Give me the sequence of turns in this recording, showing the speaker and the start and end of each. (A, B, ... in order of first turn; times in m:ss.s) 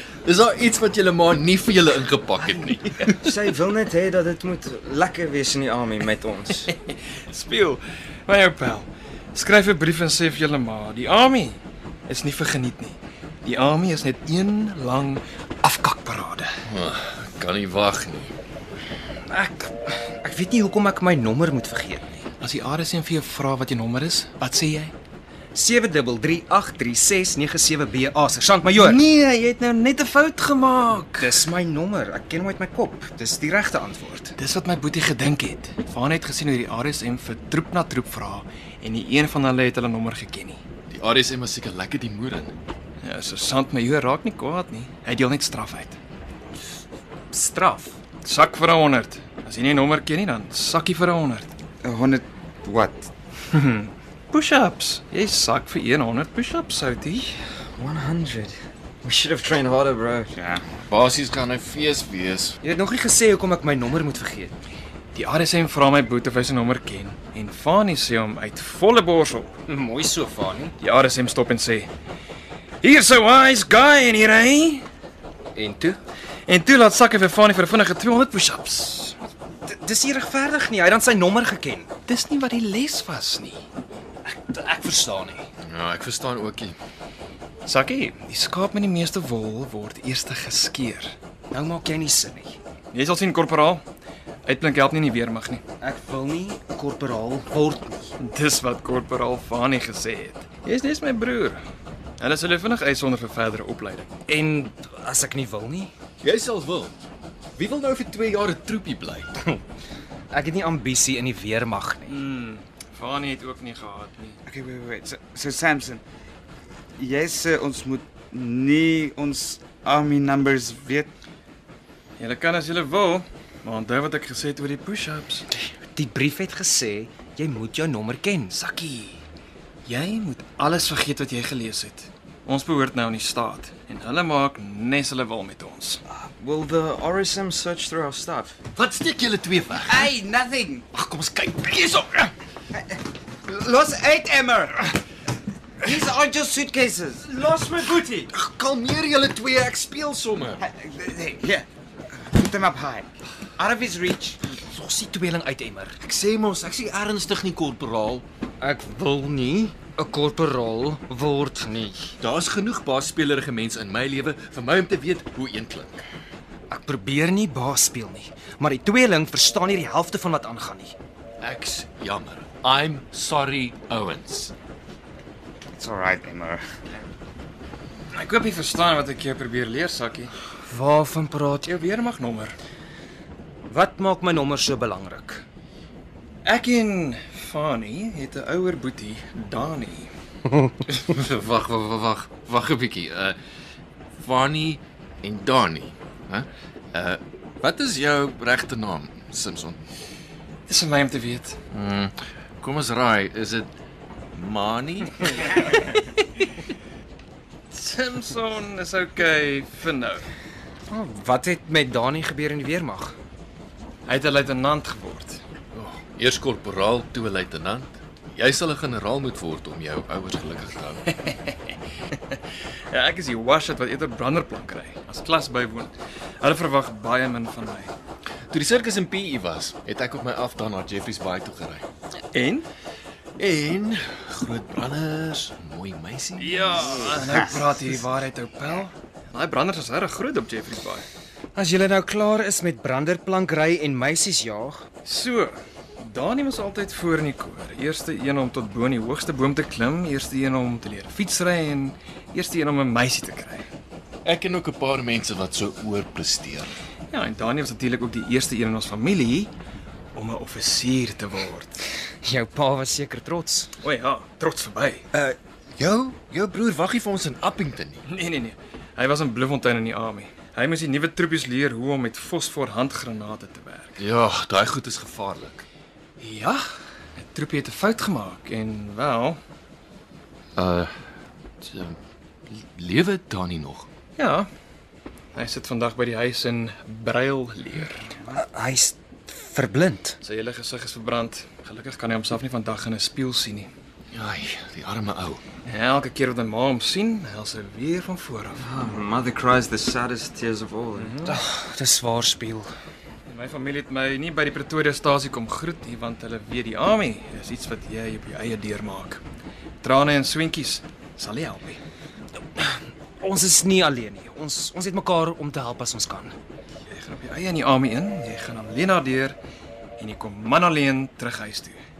0:00.2-0:03.3 A
0:03.1-0:06.7 B
0:06.7-0:16.5 C
0:16.6-0:18.3 A
0:19.3-0:22.2 D
0:22.4-0:24.9 C
0:25.5-0:29.0 D
0:28.8-0:31.4 C
0:31.2-0:34.3 D
0:34.4-0:40.6 C
0:40.9-0:42.5 A
0:43.0-0:46.0 C
0:47.3-0:47.9 D
0:48.2-0:51.5 C
0:51.8-0:53.1 E
0:53.5-0:57.3 C
0:57.8-1:00.3 B
1:00.3-1:00.6 E
1:00.9-1:02.6 A
1:02.6-1:04.6 D
1:05.1-1:09.5 C
1:09.7-1:10.7 D
1:10.8-1:11.9 C
1:12.8-1:14.8 C
1:15.5-1:16.0 D
1:16.5-1:19.2 C
1:19.6-1:21.9 D
1:22.1-1:23.6 C
1:24.2-1:25.5 D
1:25.6-1:26.8 A
1:27.6-1:31.1 C
1:31.5-1:32.6 D
1:32.9-1:33.8 C
1:34.4-1:35.6 C
1:35.8-1:38.1 D
1:38.2-1:41.6 C
1:42.2-1:44.1 C
1:44.3-1:45.9 D
1:46.2-1:46.9 A
1:47.6-1:49.3 A
1:50.3-1:52.1 D
1:52.1-1:54.4 C
1:54.5-1:56.0 E
1:57.0-2:01.1 E
2:02.2-2:05.4 C
2:05.9-2:08.6 D
2:08.5-2:09.2 C
2:09.8-2:16.0 C
2:16.1-2:18.6 B
2:18.8-2:20.1 A
2:19.8-2:20.8 E
2:20.9-2:22.3 A
2:22.7-2:25.0 E
2:25.8-2:28.3 E
2:28.3-2:30.6 A
2:30.6-2:31.6 E
2:32.2-2:34.4 E
2:34.6-2:36.0 D
2:36.0-2:38.2 A
2:38.6-2:42.1 D
2:42.2-2:46.0 A
2:46.7-2:51.0 D
2:51.4-2:54.5 A
2:55.7-2:56.6 E
2:58.1-3:00.3 C
3:00.7-3:01.7 D
3:01.6-3:02.6 C
3:03.7-3:05.4 D
3:06.4-3:10.1 C
3:11.0-3:13.4 A
3:14.2-3:19.8 A
3:20.7-3:21.6 C
3:21.7-3:23.7 A
3:24.3-3:25.5 A
3:27.7-3:30.2 C
3:30.9-3:33.1 D
3:34.1-3:35.4 C
3:35.7-3:41.0 A
3:41.2-3:42.4 C
3:42.9-3:47.9 C
3:48.5-3:51.8 A
3:52.3-3:52.6 C
3:53.4-3:57.0 A
3:56.4-4:01.0 C
3:57.1-3:57.6 E
4:01.5-4:04.9 D
4:05.0-4:13.7 C
4:14.2-4:16.8 A
4:17.1-4:19.5 C
4:20.1-4:21.8 C
4:22.2-4:23.7 D
4:23.8-4:25.0 C
4:25.1-4:28.0 A
4:28.1-4:34.0 C
4:34.0-4:35.6 A
4:36.2-4:36.6 C
4:37.2-4:39.4 C
4:40.6-4:40.9 A
4:41.6-4:42.0 A
4:42.5-4:43.9 A
4:44.2-4:44.5 C
4:45.3-4:48.1 C
4:48.3-4:50.2 D
4:50.2-4:53.7 C
4:54.1-4:55.4 A
4:55.7-4:58.6 C
4:58.6-5:01.2 B
5:00.9-5:01.4 C
5:01.2-5:02.7 D
5:03.3-5:09.2 C
5:09.8-5:11.8 C
5:12.6-5:16.3 D
5:16.9-5:19.4 C
5:20.0-5:21.8 C